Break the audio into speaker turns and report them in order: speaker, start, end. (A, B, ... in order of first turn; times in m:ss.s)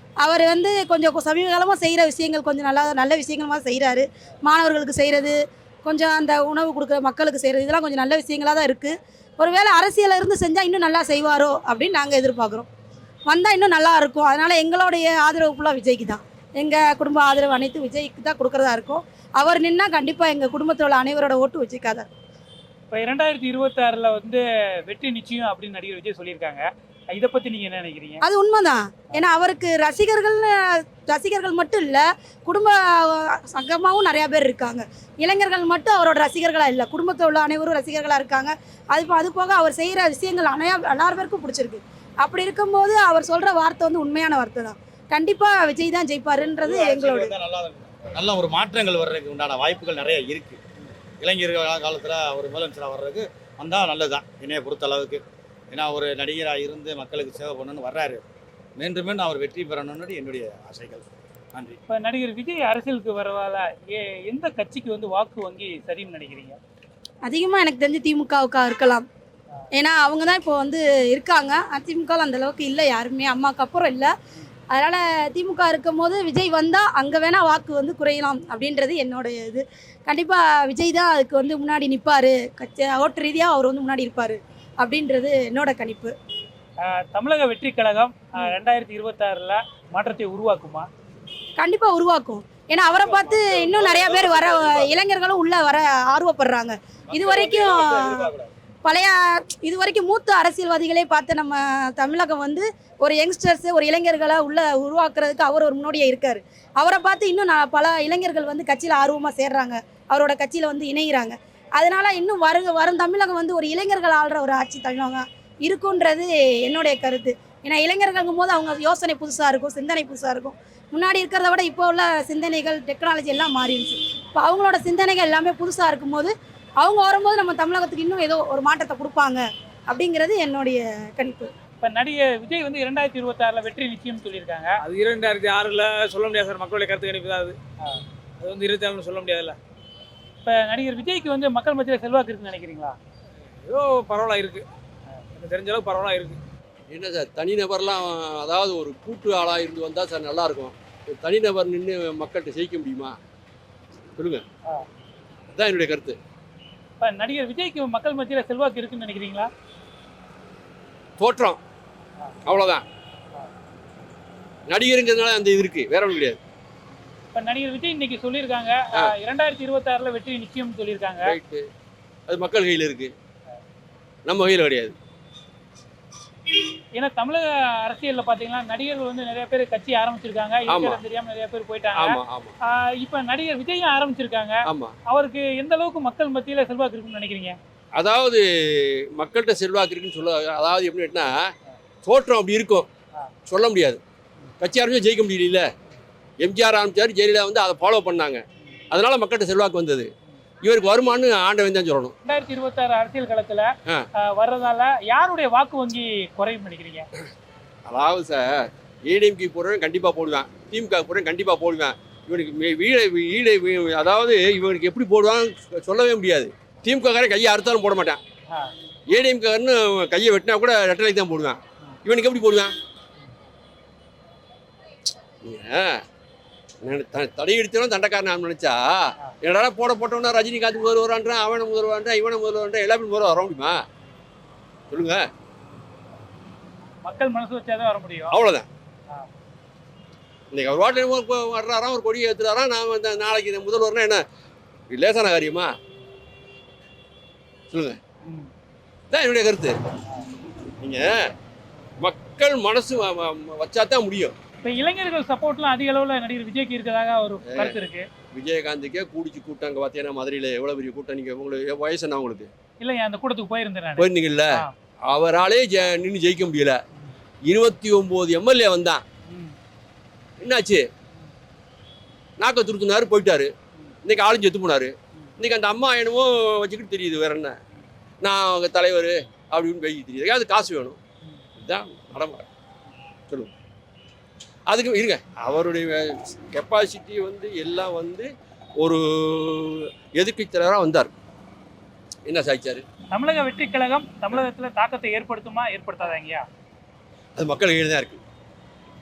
0:00.2-0:12.7 A
0:13.3-0:22.1 A
0:22.9-0:28.2 B
0:28.2-0:30.5 A
0:31.1-0:47.3 A
0:46.6-0:50.6 C
0:51.2-0:58.2 C
0:58.8-1:01.8 C
1:01.9-1:06.6 B
1:07.2-1:09.1 A
1:09.8-1:14.1 A
1:14.7-1:26.1 A
1:26.9-1:30.9 B
1:31.6-1:38.3 A
1:37.2-1:38.1 D
1:38.8-2:11.5 A
2:11.8-2:14.8 B
2:14.8-2:17.6 E
2:18.4-2:19.6 E
2:20.4-2:23.0 B
2:23.6-2:24.6 E
2:25.4-2:26.4 E
2:26.9-2:33.2 D
2:34.2-2:34.4 D
2:35.5-2:36.2 D
2:37.0-2:39.5 B
2:41.2-2:41.6 D
2:42.5-2:42.8 D
2:44.7-2:46.4 D
2:47.4-2:51.3 B
2:51.3-2:51.6 D
2:52.3-2:53.1 D
2:54.3-2:55.0 D
2:57.0-3:07.6 B
3:00.7-3:01.0 D
3:02.0-3:02.6 D
3:08.0-3:08.4 D
3:09.2-3:11.3 D
3:12.1-3:12.9 D
3:13.5-3:14.0 D
3:14.6-3:15.7 D
3:16.4-3:20.1 D
3:20.6-3:22.1 D
3:22.2-3:23.7 B
3:24.3-3:27.1 B
3:27.9-3:38.2 D
3:39.1-3:42.7 D
3:45.4-3:46.0 D
3:46.8-3:53.8 D
3:54.9-3:55.3 D
3:57.0-3:58.4 B
3:58.3-3:58.7 D
4:00.5-4:04.2 D
4:04.9-4:05.7 D
4:07.7-4:08.0 D
4:09.1-4:09.8 D
4:10.8-4:11.2 D
4:12.0-4:14.3 D
4:14.6-4:18.1 B
4:17.4-4:17.8 D
4:18.3-4:22.5 D
4:22.8-4:24.7 B
4:24.0-4:24.5 D
4:25.1-4:26.8 D
4:27.5-4:29.0 D
4:29.3-4:29.6 B
4:30.4-4:30.8 D
4:32.4-4:33.5 D
4:34.0-4:37.6 D
4:38.2-4:41.0 D
4:41.6-4:42.5 D
4:44.7-4:51.1 D
4:52.3-4:52.8 D
4:53.1-4:56.4 B
4:57.4-4:58.2 D